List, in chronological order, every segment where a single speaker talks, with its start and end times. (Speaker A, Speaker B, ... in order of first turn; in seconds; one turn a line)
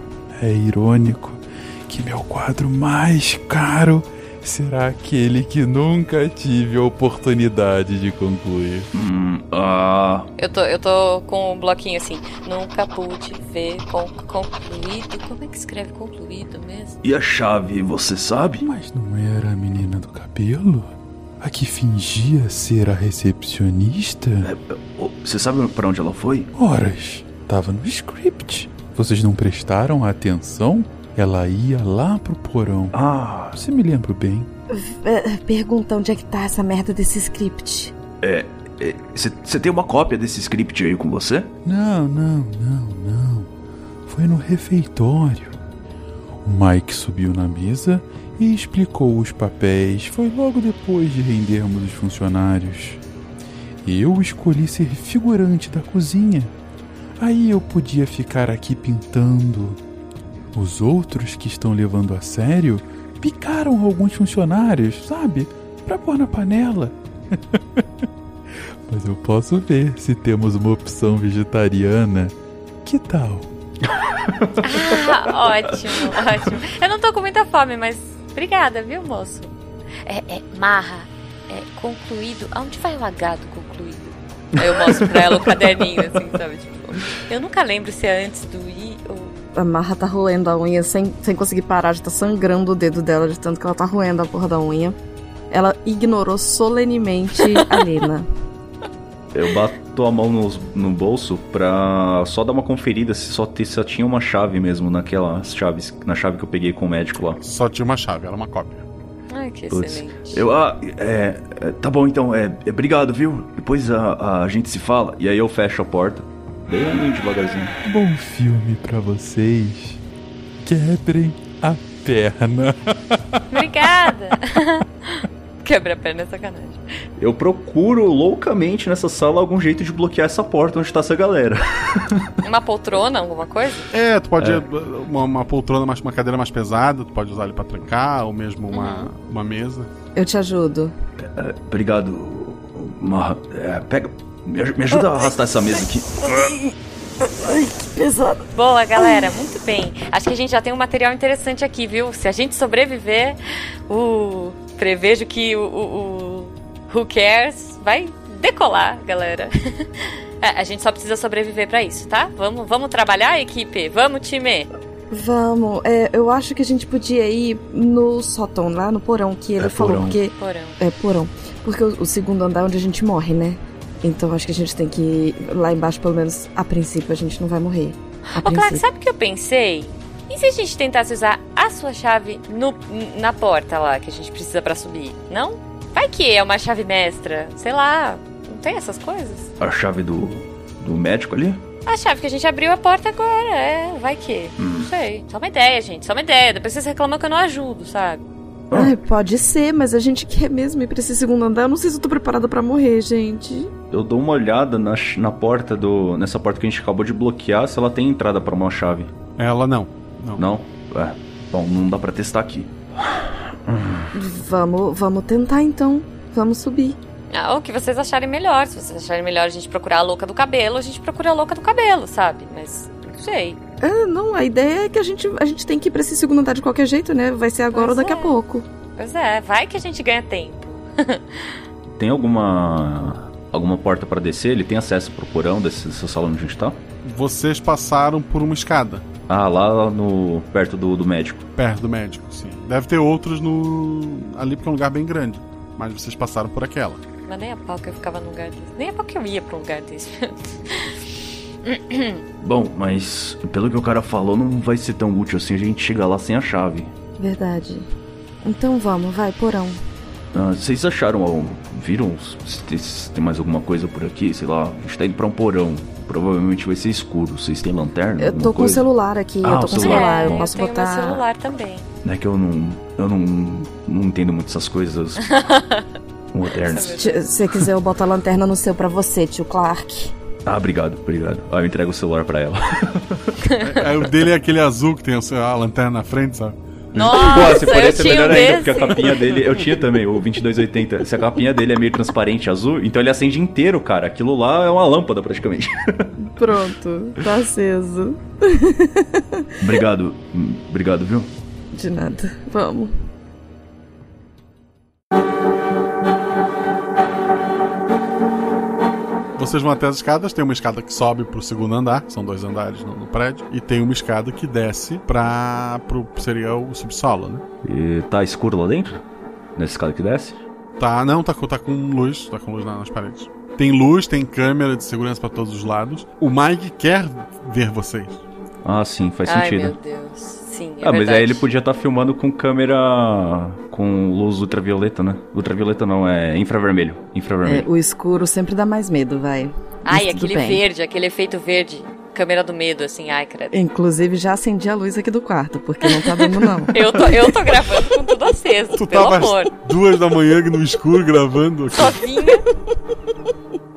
Speaker A: 0.3-8.9
Speaker B: 8.9-10.3
Speaker C: 10.4-17.0
Speaker B: 17.0-18.6
Speaker A: 18.6-24.5
Speaker B: 24.4-26.5
Speaker A: 26.5-33.0
Speaker B: 32.9-33.6
Speaker A: 33.5-34.5
Speaker D: 34.7-37.9
Speaker B: 38.2-41.5
Speaker A: 41.6-43.5
Speaker A: 44.1-45.6
Speaker A: 46.4-53.0
Speaker A: 53.8-56.5
Speaker A: 57.2-59.8
Speaker A: 60.5-66.9
Speaker A: 68.9-73.5
Speaker B: 74.2-75.2
Speaker C: 74.6-79.5
Speaker C: 80.0-89.3
Speaker B: 84.9-85.9
Speaker D: 89.5-95.0
Speaker D: 95.5-98.3
Speaker B: 99.3-107.4
Speaker E: 107.4-108.8
Speaker C: 109.3-110.4
Speaker B: 109.7-117.7
Speaker A: 117.8-120.0
Speaker A: 120.6-123.2
Speaker C: 123.5-126.8
Speaker B: 127.2-132.3
Speaker C: 132.4-133.9
Speaker E: 133.9-139.9
Speaker B: 134.4-134.6
Speaker C: 138.7-139.1
Speaker D: 140.1-140.9
Speaker B: 141.2-146.4
Speaker D: 146.2-148.4
Speaker C: 148.5-153.4
Speaker C: 153.9-164.7
Speaker D: 165.1-178.8
Speaker B: 169.6-170.2
Speaker C: 170.3-170.8
Speaker C: 178.3-189.5
Speaker B: 189.6-191.6
Speaker C: 191.8-198.2
Speaker B: 194.6-194.9
Speaker B: 198.7-198.9
Speaker D: 198.7-203.7
Speaker B: 203.9-209.1
Speaker E: 209.4-210.4
Speaker B: 210.4-214.1
Speaker D: 214.1-217.0
Speaker C: 217.3-223.6
Speaker D: 223.8-228.6
Speaker C: 227.7-228.3
Speaker C: 229.0-231.6
Speaker B: 231.9-236.8
Speaker E: 237.0-239.0
Speaker B: 239.3-241.4
Speaker E: 241.6-247.0
Speaker C: 247.2-251.0
Speaker C: 251.6-252.2
Speaker B: 252.4-256.9
Speaker D: 257.2-257.9
Speaker D: 258.4-259.8
Speaker B: 260.3-268.9
Speaker D: 268.2-271.2
Speaker B: 269.4-270.4
Speaker C: 269.7-271.9
Speaker B: 272.0-275.2
Speaker C: 275.3-275.9
Speaker B: 276.3-277.0
Speaker C: 276.7-277.2
Speaker D: 277.0-280.1
Speaker B: 280.4-283.4
Speaker C: 283.4-283.7
Speaker E: 283.6-286.6
Speaker C: 286.9-289.3
Speaker B: 287.0-296.1
Speaker D: 296.2-299.4
Speaker B: 299.6-301.3
Speaker D: 301.7-302.9
Speaker E: 309.4-317.4
Speaker B: 317.6-319.0
Speaker B: 319.6-320.4
Speaker E: 320.8-328.2
Speaker B: 328.6-329.7
Speaker C: 329.2-331.4
Speaker B: 330.8-337.7
Speaker D: 337.4-340.6
Speaker C: 339.8-343.6
Speaker D: 343.5-347.1
Speaker C: 345.9-349.5
Speaker E: 348.8-352.0
Speaker C: 351.7-352.4